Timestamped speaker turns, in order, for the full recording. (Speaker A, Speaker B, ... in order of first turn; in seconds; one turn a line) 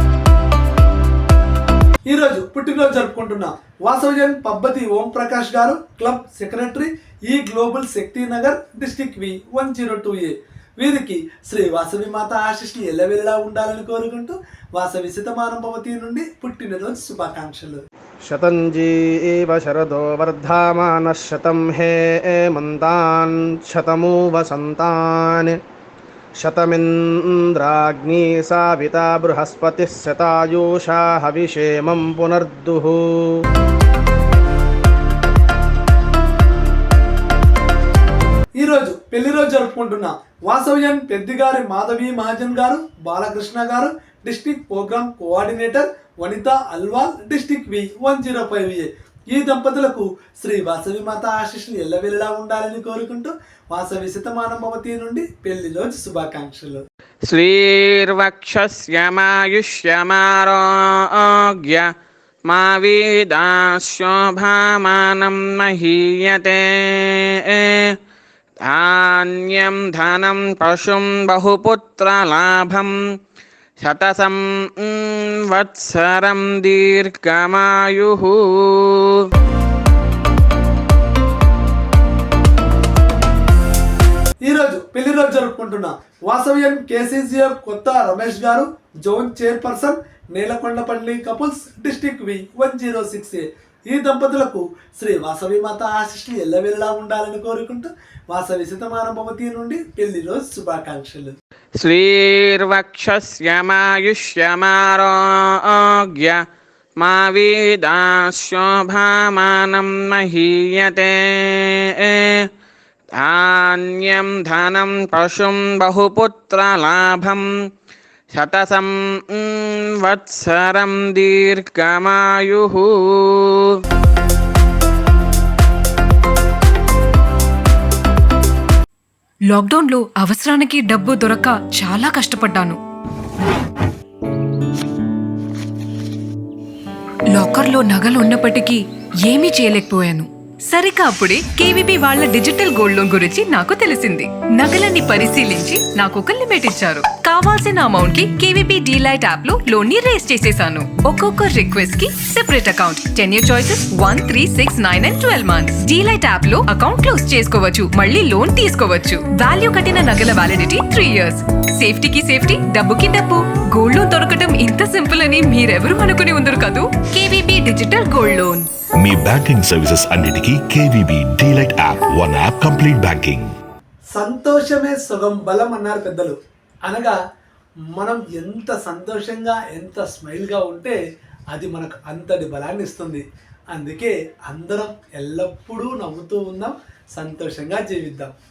Speaker A: 2.1-17.8
Speaker B: 18.2-25.6
Speaker B: 26.4-33.4
Speaker A: 38.6-56.8
Speaker C: 57.3-61.9
Speaker C: 62.5-68.0
Speaker C: 68.6-72.9
Speaker C: 73.8-79.3
Speaker A: 84.5-101.3
Speaker C: 101.8-106.4
Speaker C: 107.0-112.5
Speaker C: 113.1-117.5
Speaker C: 118.3-123.8
Speaker D: 129.5-132.8
Speaker D: 137.3-168.7
Speaker E: 169.0-173.5
Speaker A: 174.1-176.4
Speaker A: 176.9-177.2
Speaker A: 178.0-181.0
Speaker A: 181.5-188.3